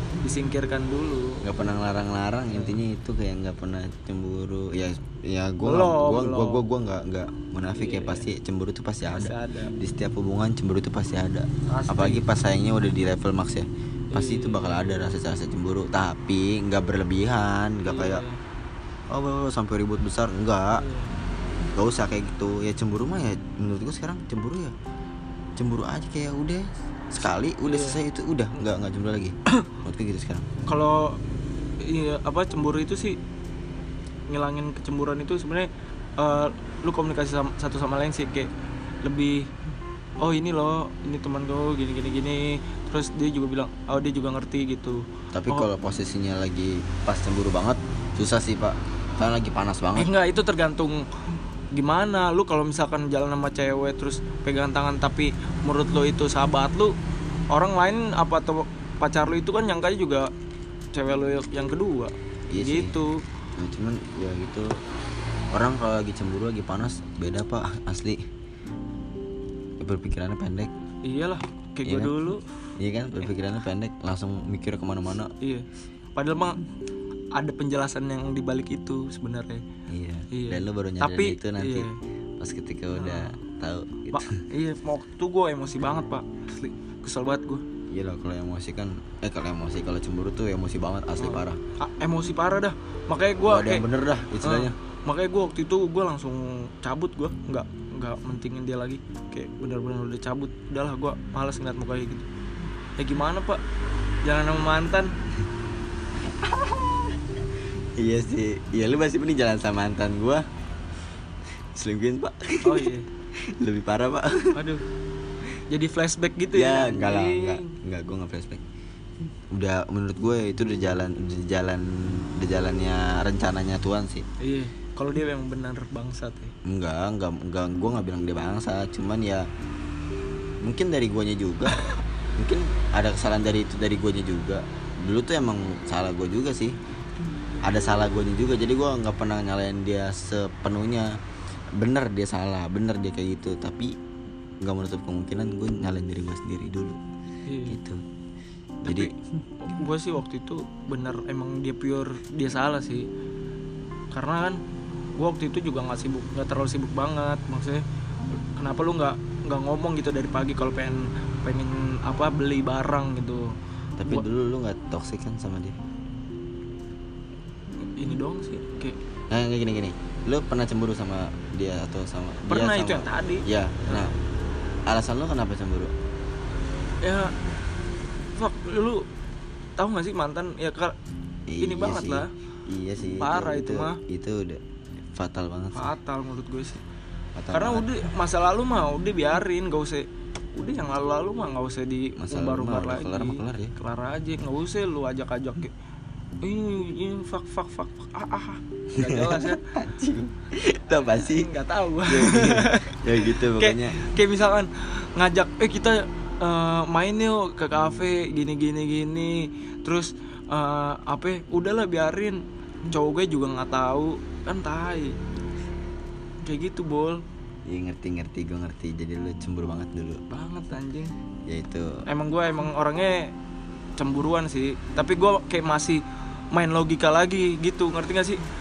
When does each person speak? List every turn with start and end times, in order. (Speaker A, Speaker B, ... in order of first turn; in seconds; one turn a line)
Speaker A: 0.2-1.4
Speaker B: 1.4-18.2
Speaker A: 2.5-2.8
Speaker A: 5.6-6.6
Speaker A: 7.8-8.3
Speaker A: 9.1-9.8
Speaker A: 11.7-12.3
Speaker A: 14.1-15.1
Speaker A: 17.9-18.4
Speaker B: 19.1-20.8
Speaker A: 20.8-21.1
Speaker B: 21.8-24.8
Speaker B: 25.6-30.5
Speaker A: 27.6-28.0
Speaker A: 30.7-31.2
Speaker A: 31.8-33.2
Speaker A: 34.3-38.5
Speaker A: 39.0-39.5
Speaker A: 40.2-45.7
Speaker B: 45.3-50.1
Speaker A: 50.0-51.0
Speaker A: 51.7-56.9
Speaker A: 57.5-60.3
Speaker A: 60.9-63.2
Speaker B: 62.5-63.0
Speaker B: 63.6-64.7
Speaker B: 65.5-68.2
Speaker B: 69.8-70.7
Speaker A: 71.0-72.5
Speaker B: 71.8-72.1
Speaker B: 72.8-75.3
Speaker A: 75.4-76.6
Speaker A: 77.3-79.6
Speaker B: 79.9-81.9
Speaker A: 80.3-82.0
Speaker B: 82.4-84.4
Speaker A: 83.0-83.4
Speaker A: 84.1-87.6
Speaker B: 87.9-91.6
Speaker A: 91.2-93.9
Speaker B: 93.5-94.8
Speaker A: 94.4-102.3
Speaker A: 103.0-103.6
Speaker A: 104.2-105.1
Speaker B: 106.4-107.0
Speaker B: 108.0-110.5
Speaker B: 111.7-114.6
Speaker A: 112.6-113.1
Speaker A: 114.5-114.8
Speaker A: 115.7-117.7
Speaker B: 116.5-118.6
Speaker B: 119.5-124.3
Speaker A: 124.4-126.5
Speaker B: 126.7-129.5
Speaker B: 130.6-136.8
Speaker B: 137.6-141.1
Speaker B: 141.8-143.9
Speaker B: 144.6-147.0
Speaker A: 147.5-147.8
Speaker B: 147.7-148.0
Speaker B: 148.8-149.1
Speaker A: 148.9-153.1
Speaker A: 154.1-154.6
Speaker A: 155.2-157.8
Speaker A: 158.6-163.5
Speaker B: 164.0-165.8
Speaker A: 167.8-169.0
Speaker B: 169.3-174.1
Speaker A: 172.5-174.1
Speaker B: 174.9-175.9
Speaker A: 177.0-177.3
Speaker A: 178.3-179.1
Speaker A: 179.8-180.9
Speaker B: 181.5-184.6
Speaker A: 181.6-182.3
Speaker A: 183.0-184.0
Speaker B: 185.1-185.9
Speaker A: 185.7-186.8
Speaker B: 187.4-187.9
Speaker A: 187.5-195.7
Speaker B: 192.2-193.7
Speaker A: 196.4-199.7
Speaker B: 198.9-201.5
Speaker A: 201.0-215.1
Speaker B: 202.1-204.0
Speaker A: 216.4-217.2
Speaker B: 217.7-220.2
Speaker A: 220.3-221.1
Speaker B: 221.5-222.0
Speaker A: 222.1-223.3
Speaker A: 224.0-226.0
Speaker A: 226.5-228.4